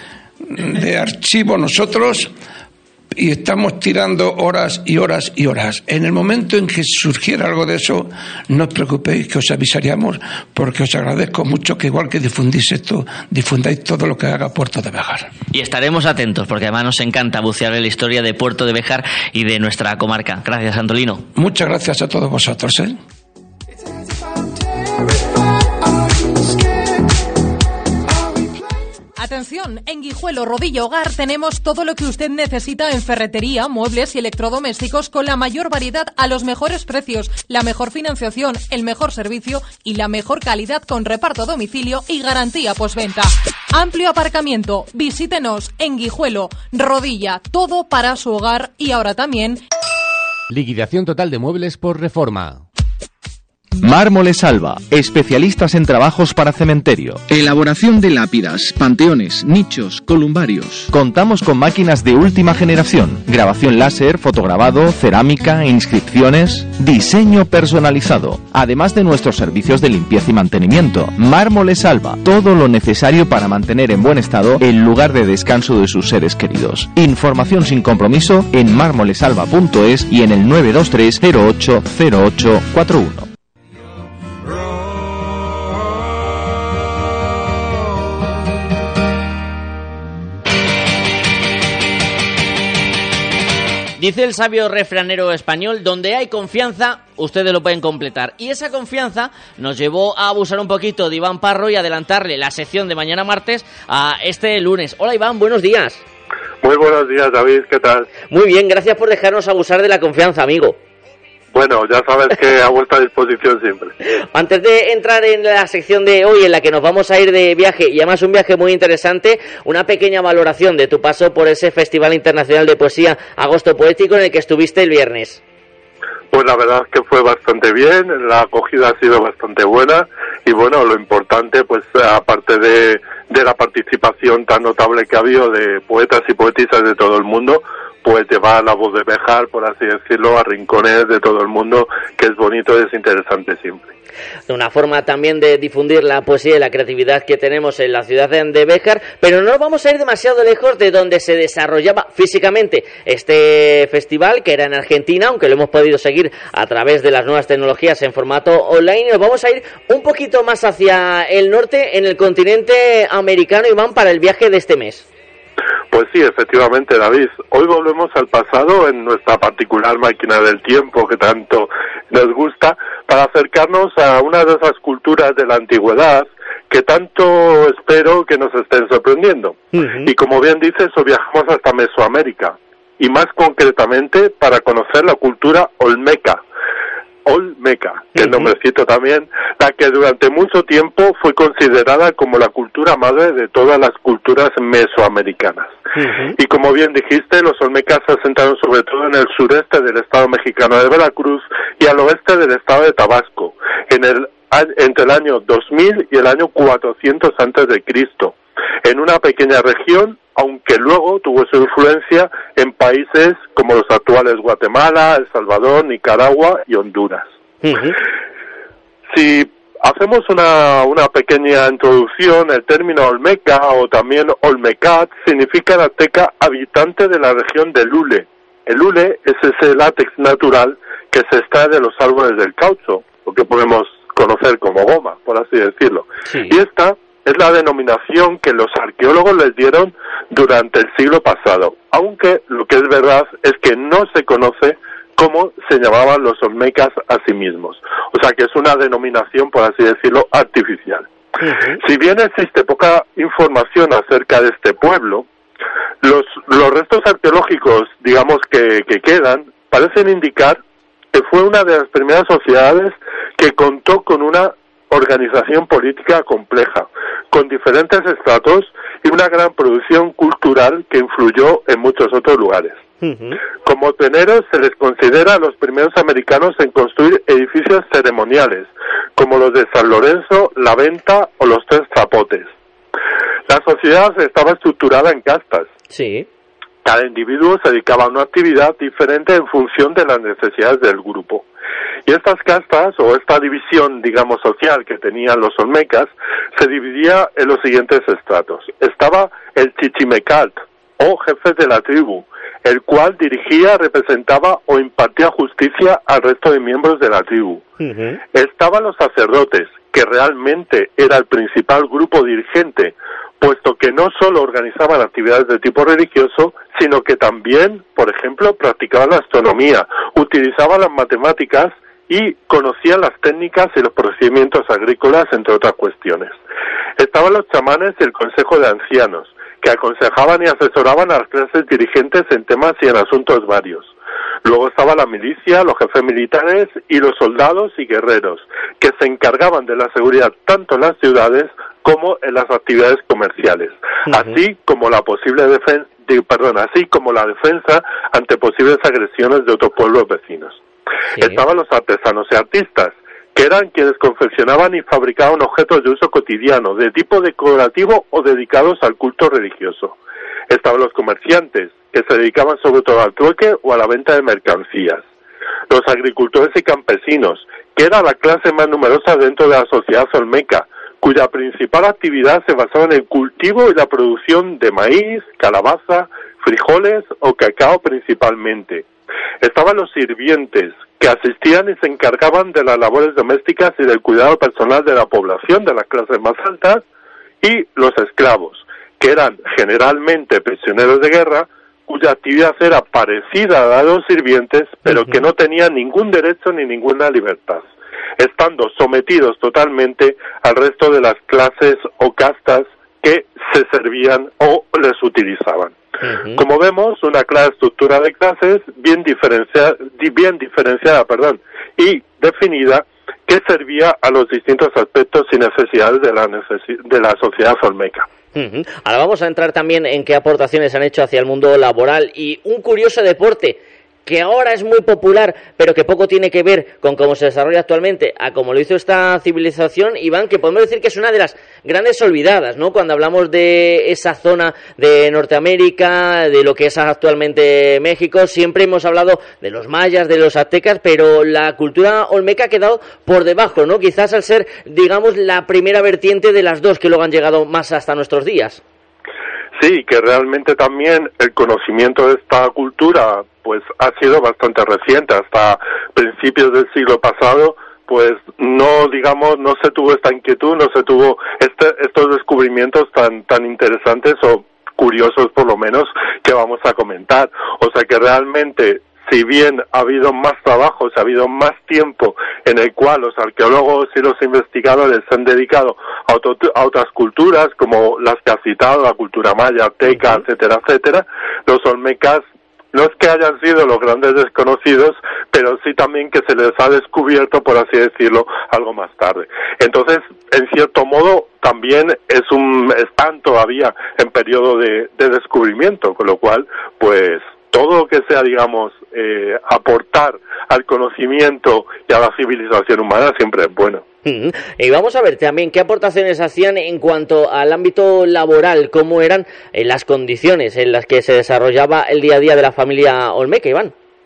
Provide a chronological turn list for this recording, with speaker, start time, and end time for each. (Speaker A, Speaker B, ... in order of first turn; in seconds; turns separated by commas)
Speaker A: 0.4-2.3, Speaker A: 3.1-15.3, Speaker B: 15.5-21.2, Speaker A: 21.3-23.0, Speaker C: 29.2-49.6, Speaker D: 50.5-52.6, Speaker E: 54.6-54.9, Speaker F: 57.3-60.9, Speaker E: 65.8-70.1, Speaker E: 70.8-71.3, Speaker E: 71.8-72.2, Speaker E: 78.2-78.6, Speaker E: 79.5-80.6, Speaker B: 94.0-106.0, Speaker G: 106.6-108.1, Speaker B: 108.3-110.8, Speaker G: 111.5-113.9, Speaker B: 114.3-125.4, Speaker G: 126.3-143.8, Speaker B: 144.5-165.0, Speaker G: 165.9-186.4, Speaker G: 187.2-195.8, Speaker G: 196.3-217.3, Speaker B: 217.6-217.9, Speaker G: 219.1-251.1, Speaker G: 251.7-255.2, Speaker G: 256.0-260.6, Speaker G: 261.1-272.8, Speaker B: 273.0-273.4, Speaker G: 273.5-282.5, Speaker G: 283.5-285.7, Speaker B: 285.9-286.2, Speaker G: 286.8-291.4, Speaker G: 292.1-307.7, Speaker G: 308.3-326.4, Speaker G: 327.0-333.9, Speaker G: 334.4-350.6, Speaker B: 344.1-344.4, Speaker G: 351.2-359.9, Speaker G: 360.5-365.0, Speaker G: 365.7-378.9, Speaker G: 379.4-386.8, Speaker G: 387.4-397.6, Speaker G: 398.2-405.8, Speaker B: 406.0-406.4, Speaker G: 406.4-418.1, Speaker B: 418.4-423.6, Speaker B: 424.1-448.6, Speaker G: 449.6-503.9, Speaker B: 504.1-513.7